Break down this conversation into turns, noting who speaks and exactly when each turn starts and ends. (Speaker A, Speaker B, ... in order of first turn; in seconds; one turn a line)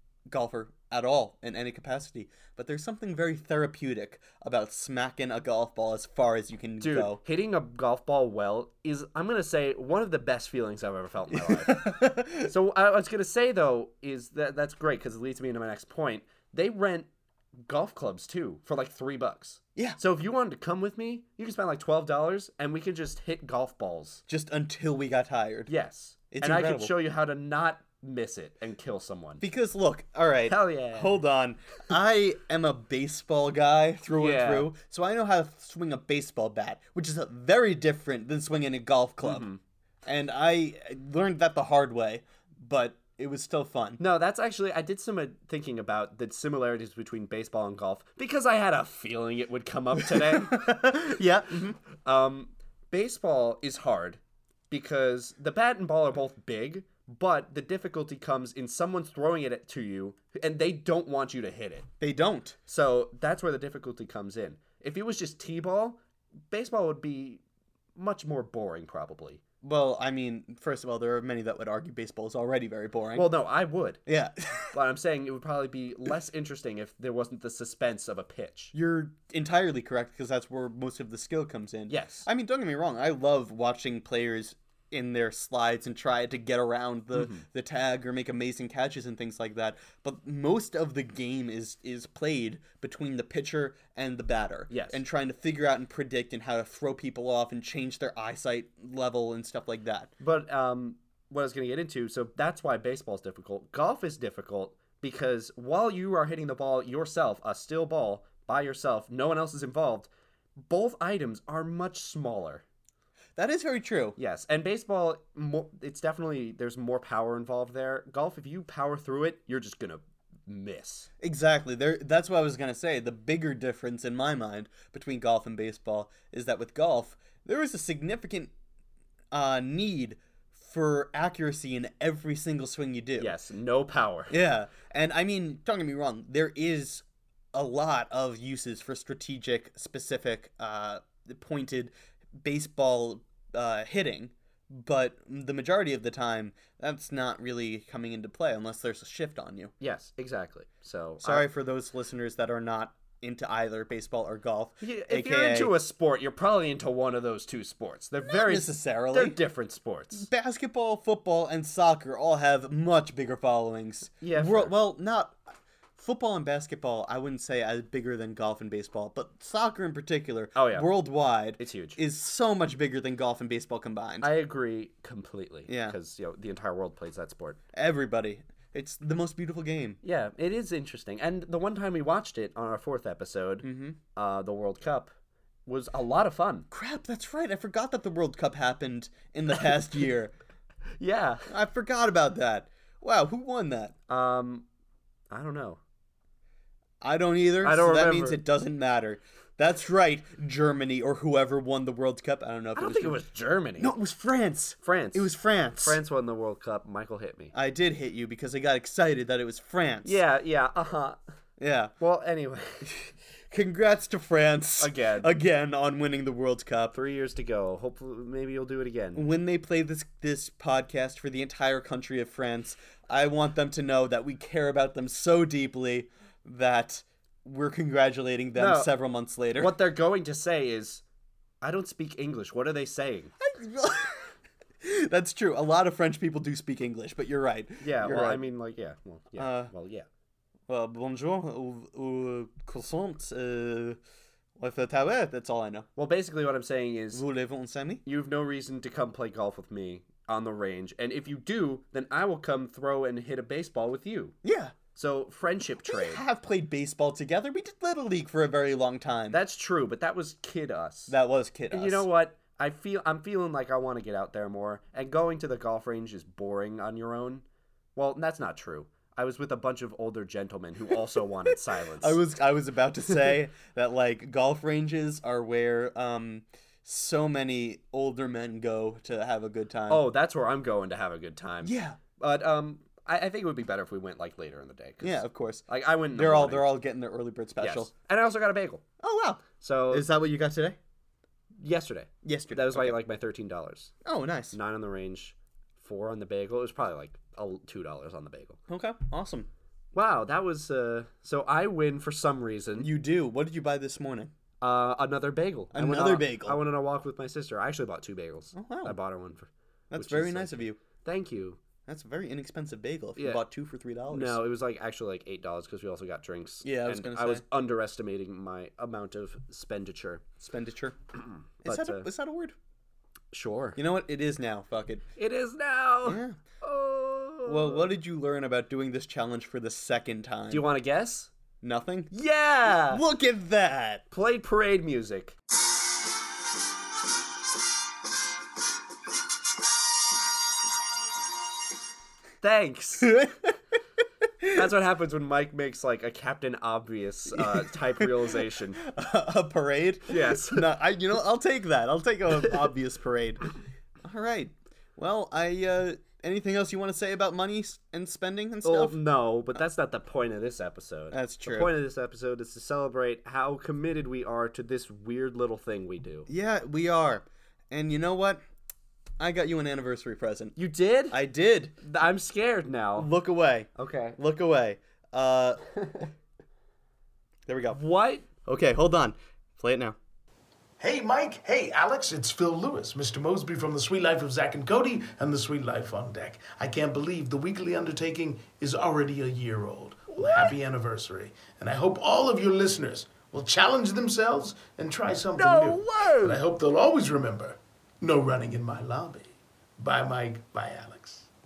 Speaker A: 0.3-7.2
Speaker B: 6.8-17.1
Speaker A: 11.4-12.5
Speaker B: 17.6-24.2
Speaker A: 24.3-25.7
Speaker B: 25.7-29.4
Speaker A: 26.3-26.9
Speaker A: 29.4-39.5
Speaker B: 30.5-31.2
Speaker B: 34.2-34.7
Speaker B: 39.2-39.6
Speaker A: 40.0-44.0
Speaker B: 44.0-50.7
Speaker A: 50.0-51.8
Speaker B: 51.9-61.9
Speaker A: 62.0-62.6
Speaker B: 62.7-67.4
Speaker B: 68.0-69.4
Speaker A: 69.6-73.3
Speaker B: 73.2-74.0
Speaker A: 74.1-74.7
Speaker B: 74.7-78.7
Speaker A: 78.7-100.1
Speaker B: 81.9-82.3
Speaker B: 87.1-87.5
Speaker B: 94.7-95.0
Speaker B: 100.2-110.1
Speaker B: 110.7-112.6
Speaker A: 113.4-114.2
Speaker B: 114.2-121.1
Speaker A: 121.2-128.5
Speaker A: 129.3-133.4
Speaker B: 133.2-134.3
Speaker A: 134.3-149.7
Speaker B: 149.8-151.5
Speaker A: 151.2-155.7
Speaker B: 154.8-160.3
Speaker A: 158.3-159.4
Speaker A: 160.1-165.4
Speaker B: 164.2-164.7
Speaker A: 166.0-174.3
Speaker B: 170.6-170.9
Speaker B: 171.6-172.0
Speaker B: 174.2-177.6
Speaker A: 175.7-176.0
Speaker A: 177.7-180.0
Speaker B: 180.0-185.1
Speaker A: 183.6-184.0
Speaker B: 185.7-186.7
Speaker A: 186.7-190.3
Speaker B: 191.0-191.5
Speaker A: 191.5-193.9
Speaker B: 194.1-194.7
Speaker B: 195.3-195.8
Speaker A: 197.0-203.2
Speaker B: 197.6-198.4
Speaker B: 202.8-203.9
Speaker A: 203.8-206.0
Speaker B: 204.8-207.5
Speaker A: 207.5-210.2
Speaker B: 210.0-211.2
Speaker A: 211.6-211.9
Speaker B: 212.0-212.9
Speaker A: 212.8-217.0
Speaker B: 214.8-215.3
Speaker B: 216.9-219.2
Speaker A: 219.2-229.8
Speaker B: 228.6-228.9
Speaker B: 229.6-231.0
Speaker B: 231.6-233.3
Speaker A: 233.4-238.4
Speaker B: 237.8-240.1
Speaker A: 239.4-239.7
Speaker A: 240.7-244.0
Speaker A: 244.6-245.9
Speaker B: 246.0-247.2
Speaker A: 247.1-248.0
Speaker B: 248.1-254.3
Speaker A: 254.4-254.8
Speaker B: 254.9-256.2
Speaker A: 255.8-259.4
Speaker B: 259.3-261.1
Speaker A: 261.1-262.1
Speaker B: 261.7-267.4
Speaker B: 268.0-272.2
Speaker A: 272.0-280.0
Speaker B: 279.9-286.8
Speaker A: 281.6-282.0
Speaker A: 285.0-287.9
Speaker B: 287.6-288.8
Speaker A: 289.0-290.8
Speaker B: 289.6-290.1
Speaker B: 291.6-293.9
Speaker A: 292.2-293.0
Speaker A: 294.1-294.6
Speaker B: 294.5-298.6
Speaker A: 298.7-299.5
Speaker B: 299.9-302.9
Speaker A: 302.8-304.3
Speaker B: 304.6-311.6
Speaker A: 305.7-306.6
Speaker A: 308.6-309.0
Speaker A: 309.9-310.8
Speaker A: 311.9-314.4
Speaker B: 314.1-320.3
Speaker A: 316.6-317.4
Speaker A: 320.4-321.0
Speaker B: 321.1-322.1
Speaker A: 321.6-322.6
Speaker B: 323.3-323.8
Speaker A: 323.8-325.0
Speaker B: 325.2-327.9
Speaker A: 326.1-326.4
Speaker A: 327.5-330.7
Speaker B: 330.5-331.3
Speaker A: 331.6-332.1
Speaker B: 332.1-333.0
Speaker A: 332.7-334.0
Speaker B: 334.1-335.4
Speaker B: 342.4-343.2
Speaker A: 343.0-343.5
Speaker B: 344.5-348.8
Speaker A: 347.4-353.4
Speaker B: 350.1-350.7
Speaker A: 354.0-359.0
Speaker B: 358.6-366.3
Speaker A: 361.1-361.7
Speaker A: 366.3-368.4
Speaker A: 369.2-370.6
Speaker B: 370.6-371.2
Speaker A: 371.1-371.8
Speaker B: 371.8-373.1
Speaker A: 373.0-375.6
Speaker B: 373.8-374.2
Speaker B: 375.8-376.1
Speaker A: 377.5-377.8
Speaker B: 377.7-378.3
Speaker A: 378.5-380.0
Speaker C: 380.8-401.3
Speaker B: 390.2-390.5
Speaker B: 395.4-396.4